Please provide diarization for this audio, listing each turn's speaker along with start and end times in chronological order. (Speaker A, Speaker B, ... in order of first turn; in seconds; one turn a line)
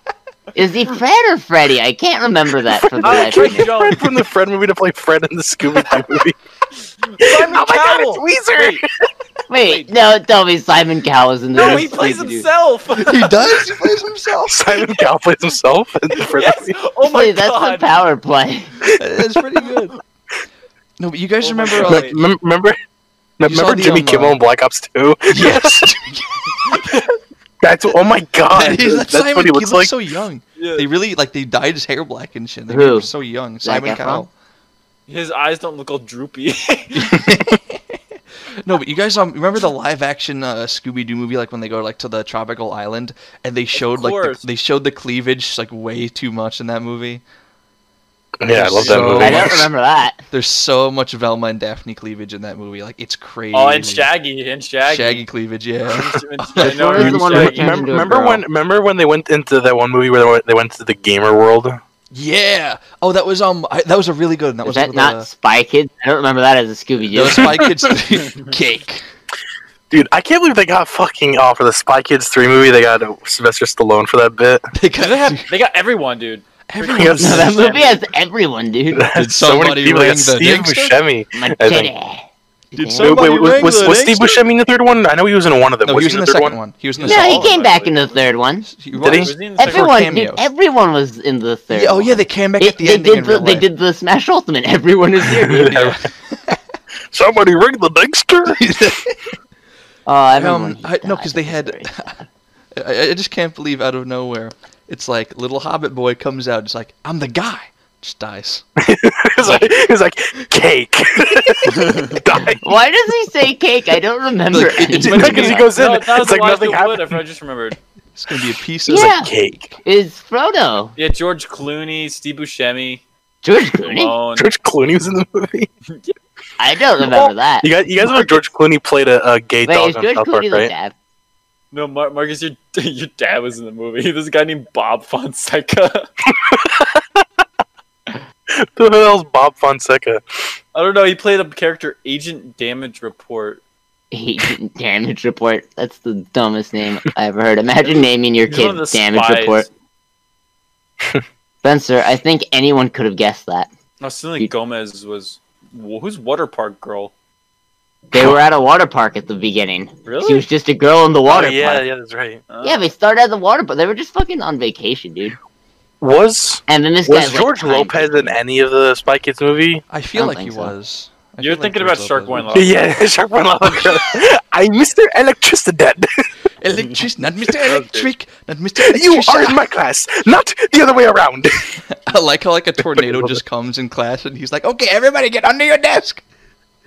Speaker A: 0.5-3.7
Speaker B: 2.7-6.3
Speaker C: 3.0-4.2
Speaker C: 7.0-8.8
Speaker B: 7.2-8.8
Speaker A: 9.5-12.4
Speaker C: 9.6-9.9
Speaker C: 11.5-13.7
Speaker D: 12.9-14.8
Speaker B: 14.5-16.8
Speaker C: 16.1-18.0
Speaker A: 17.0-18.7
Speaker D: 18.9-19.9
Speaker D: 21.0-22.2
Speaker C: 21.4-22.2
Speaker B: 21.8-22.8
Speaker B: 23.4-25.9
Speaker D: 23.4-24.4
Speaker D: 25.3-27.1
Speaker B: 27.6-29.9
Speaker D: 28.5-34.3
Speaker C: 30.6-30.9
Speaker A: 32.7-33.1
Speaker A: 33.6-34.3
Speaker C: 35.1-37.2
Speaker D: 36.9-38.0
Speaker D: 38.6-47.2
Speaker C: 43.7-44.4
Speaker B: 48.4-49.7
Speaker D: 48.5-49.7
Speaker C: 48.7-49.2
Speaker A: 49.1-50.2
Speaker D: 50.3-54.1
Speaker C: 53.5-55.2
Speaker D: 54.8-57.3
Speaker C: 55.9-58.1
Speaker A: 56.6-58.4
Speaker B: 57.0-61.8
Speaker D: 62.1-65.3
Speaker A: 64.6-67.6
Speaker D: 67.1-69.0
Speaker B: 69.9-74.7
Speaker D: 74.7-75.5
Speaker C: 75.0-77.9
Speaker D: 76.7-77.8
Speaker B: 76.9-77.7
Speaker A: 77.2-79.1
Speaker B: 78.9-81.9
Speaker D: 79.1-81.0
Speaker A: 81.3-83.3
Speaker D: 82.7-84.4
Speaker B: 83.0-86.6
Speaker D: 85.8-87.6
Speaker C: 87.0-88.0
Speaker A: 87.0-88.7
Speaker D: 88.6-90.4
Speaker B: 89.0-89.3
Speaker C: 89.0-90.0
Speaker A: 89.6-95.9
Speaker D: 91.7-93.7
Speaker B: 95.3-96.0
Speaker D: 95.7-96.6
Speaker B: 97.1-98.8
Speaker D: 98.5-99.3
Speaker A: 100.0-102.3
Speaker D: 100.3-102.1
Speaker D: 102.7-108.6
Speaker B: 108.8-112.7
Speaker A: 109.4-109.7
Speaker C: 111.8-112.2
Speaker A: 112.6-115.7
Speaker D: 114.5-115.7
Speaker B: 115.0-117.2
Speaker C: 115.7-117.8
Speaker D: 118.1-119.2
Speaker A: 118.9-119.3
Speaker B: 118.9-119.7
Speaker A: 119.8-120.9
Speaker C: 121.0-123.0
Speaker A: 123.4-124.1
Speaker C: 123.8-124.5
Speaker B: 124.3-125.7
Speaker A: 126.6-127.7
Speaker B: 127.1-130.7
Speaker A: 129.6-130.9
Speaker C: 131.7-136.1
Speaker B: 136.3-137.0
Speaker B: 138.6-140.2
Speaker C: 140.7-143.6
Speaker A: 144.1-149.7
Speaker C: 147.8-149.7
Speaker A: 151.6-153.7
Speaker C: 154.0-157.1
Speaker A: 158.1-161.8
Speaker C: 160.1-160.4
Speaker B: 161.2-162.4
Speaker C: 162.5-162.8
Speaker A: 162.6-165.3
Speaker B: 166.0-169.8
Speaker A: 166.7-168.3
Speaker D: 169.9-172.7
Speaker A: 170.1-170.7
Speaker C: 171.4-172.9
Speaker B: 172.5-176.1
Speaker D: 173.6-174.2
Speaker D: 176.6-179.7
Speaker C: 177.6-178.1
Speaker B: 178.8-181.7
Speaker D: 181.8-186.2
Speaker B: 182.9-183.4